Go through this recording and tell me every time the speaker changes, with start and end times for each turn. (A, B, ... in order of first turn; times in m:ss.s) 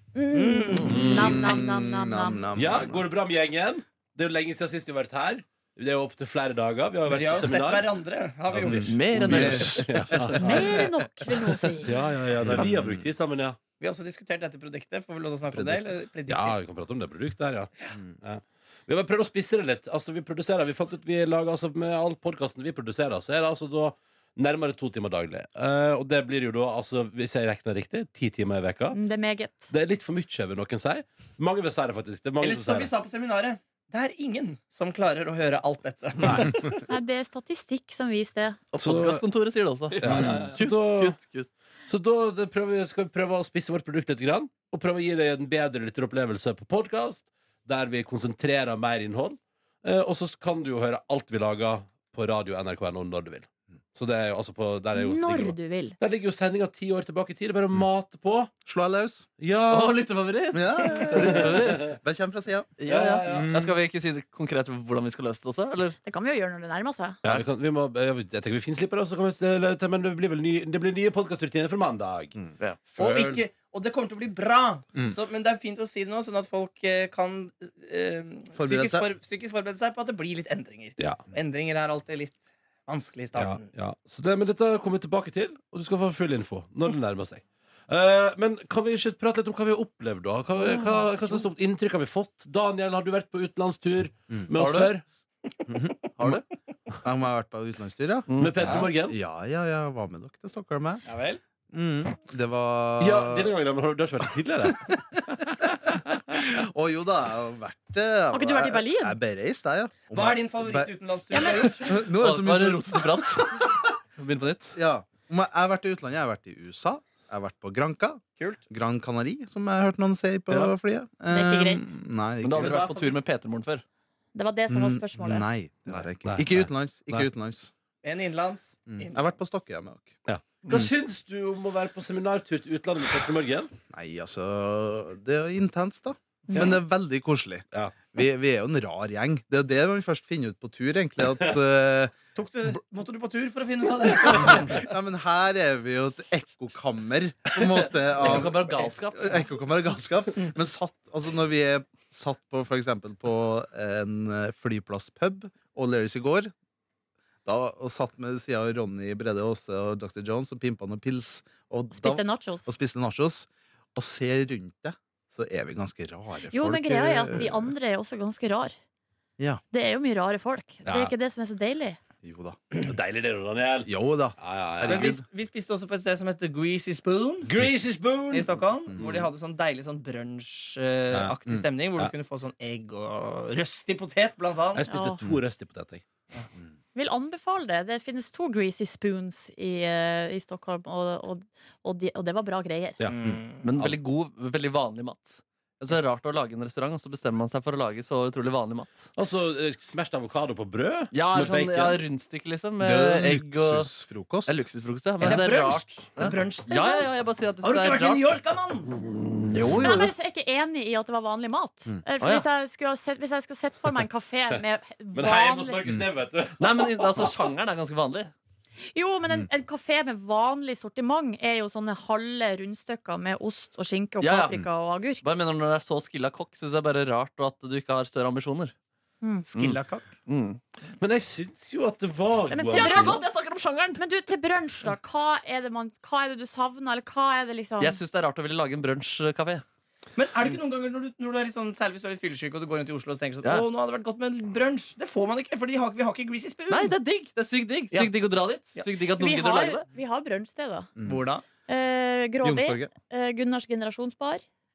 0:00.1-0:02.7 A
0:00.3-0:00.8 B
0:00.7-0:01.2 C
0:00.8-0:01.7 D
0:00.8-0:03.0 E
0:02.6-0:10.8 D
0:07.1-0:08.9 B
0:08.6-0:10.9 E
0:08.8-0:10.8 C
0:10.4-0:12.1 A
0:11.8-0:13.6 D
0:12.4-0:13.0 E
0:13.8-0:16.6 B
0:15.5-0:16.0 E
0:16.3-0:29.0 D
0:28.9-0:29.7 A
0:29.7-0:32.9 D
0:32.4-0:36.8 B
0:36.2-0:36.6 D
0:36.9-0:38.6 A
0:38.7-0:41.6 C
0:38.8-0:39.2 D
0:39.9-0:41.2 D
0:40.0-0:40.4 E
0:41.9-0:58.5 D
0:54.9-0:56.0 A
0:58.6-0:59.3 E
0:59.4-1:00.0 D
0:59.7-1:02.0 C
1:00.5-1:02.7 E
1:02.8-1:06.0 C
1:02.8-1:03.5 D
1:03.2-1:03.8 E
1:06.0-1:07.2 A
1:07.2-1:12.3 D
1:12.9-1:23.6 B
1:13.0-1:13.4 D
1:18.6-1:19.1 E
1:23.3-1:35.0 D
1:34.5-1:34.9 C
1:35.7-1:36.4 E
1:36.2-1:36.4 C
1:37.0-1:41.0 E
1:38.3-1:38.7 C
1:38.4-1:39.2 D
1:41.1-1:41.4 B
1:41.7-1:43.5 E
1:43.0-1:45.0 D
1:45.1-1:50.9 E
1:48.3-1:49.2 A
1:50.1-1:51.7 B
1:51.3-1:52.0 A
1:51.6-1:53.8 E
1:51.7-1:54.8 C
1:54.8-2:02.8 E
1:58.4-1:58.6 B
2:00.5-2:00.7 C
2:01.3-2:01.9 A
2:02.4-2:03.8 C
2:02.6-2:03.2 B
2:04.3-2:05.5 A
2:04.7-2:07.7 E
2:06.3-2:07.3 D
2:08.0-2:09.3 B
2:08.9-2:10.2 E
2:10.2-2:13.7 D
2:13.9-2:22.1 E
2:16.5-2:16.8 A
2:22.3-2:24.9 B
2:24.5-2:36.5 E
2:28.1-2:29.5 C
2:37.4-2:47.7 E
2:41.9-2:42.7 A
2:46.5-2:48.7 A
2:49.7-2:52.0 A
2:50.8-2:51.1 D
2:52.2-2:52.6 E
2:52.8-2:55.1 D
2:53.9-2:55.2 E
2:54.9-2:57.5 B
2:57.4-2:59.2 D
2:58.3-3:04.8 B
2:58.9-2:59.2 E
3:01.1-3:01.4 D
3:04.8-3:06.0 D
3:04.8-3:05.2 A
3:06.9-3:13.1 A
3:13.1-3:13.6 B
3:13.6-3:19.1 C
3:19.2-3:22.0 D
3:21.1-3:23.9 C
3:22.8-3:24.6 E
3:24.4-3:28.3 C
3:25.2-3:26.8 B
3:26.7-3:27.1 A
3:27.6-3:28.9 B
3:28.9-3:30.1 C
3:29.8-3:35.9 A
3:32.2-3:32.4 C
3:35.1-3:37.3 D
3:36.6-3:38.3 C
3:38.9-3:45.2 A
3:44.2-3:44.6 C
3:45.2-3:48.7 C
3:49.2-3:49.5 A
3:49.4-3:50.1 B
3:49.6-3:50.6 C
3:51.0-3:53.2 D
3:52.5-3:53.2 A
3:52.7-3:54.0 C
3:54.0-3:58.0 A
3:57.8-3:59.6 C
4:00.2-4:06.9 B
4:06.7-4:09.8 C
4:09.1-4:14.4 A
4:11.0-4:11.2 E
4:11.1-4:11.5 B
4:12.4-4:12.9 E